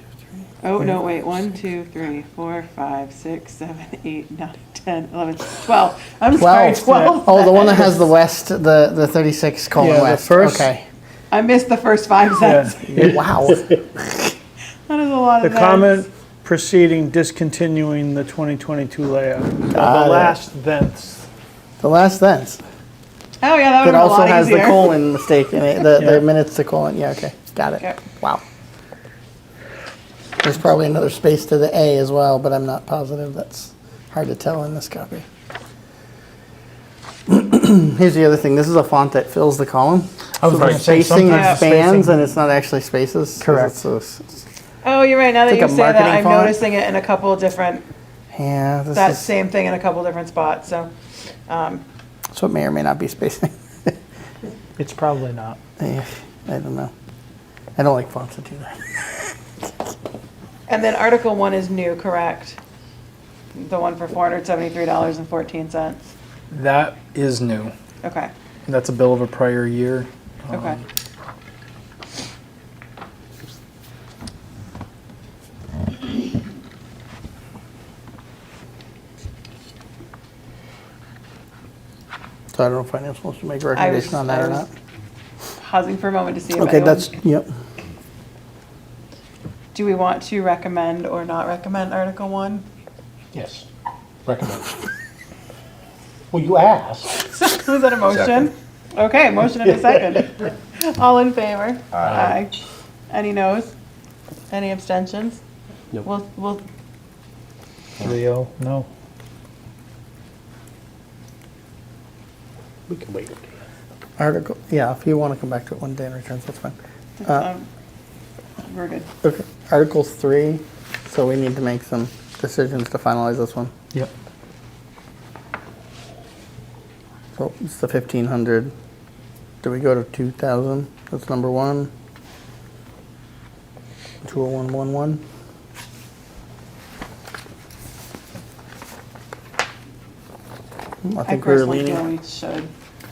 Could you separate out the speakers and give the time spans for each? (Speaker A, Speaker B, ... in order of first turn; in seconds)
Speaker A: 0.6-8.0, 11.3-12.8, 14.9-16.1, 23.4-24.9, 41.2-41.6, 44.8-47.8, 48.9-50.9, 51.5-51.8, 60.7-62.6, 63.5-66.1, 68.0-68.3, 70.5-70.8, 83.7-84.7, 85.6-87.1, 89.7-92.6, 97.3-102.5, 103.1-103.7, 104.5-105.4, 106.0-106.6, 117.2-117.7, 118.6-119.1, 141.2-142.7
Speaker B: 6.4-10.8, 12.8-14.3, 19.7-20.4, 21.8-22.6, 23.8-28.4, 30.4-35.2, 37.3-44.4, 45.5-46.6, 48.3-49.3, 52.3-53.9, 55.8-56.9, 57.8-59.3, 82.5-84.7, 86.5-87.5, 114.2-117.5, 119.2-123.7, 127.3-128.7, 129.6-131.9, 134.2-135.2, 141.0-142.0
Speaker C: 9.8-10.7, 12.4-13.0, 15.4-21.2, 40.4-42.1, 43.4-43.7, 54.8-55.6, 108.0-108.9
Speaker D: 66.5-67.7, 68.7-70.8, 94.3-94.6, 96.3-97.0
Speaker E: 93.3-93.6, 94.2-94.6, 96.3-97.1, 112.9-113.3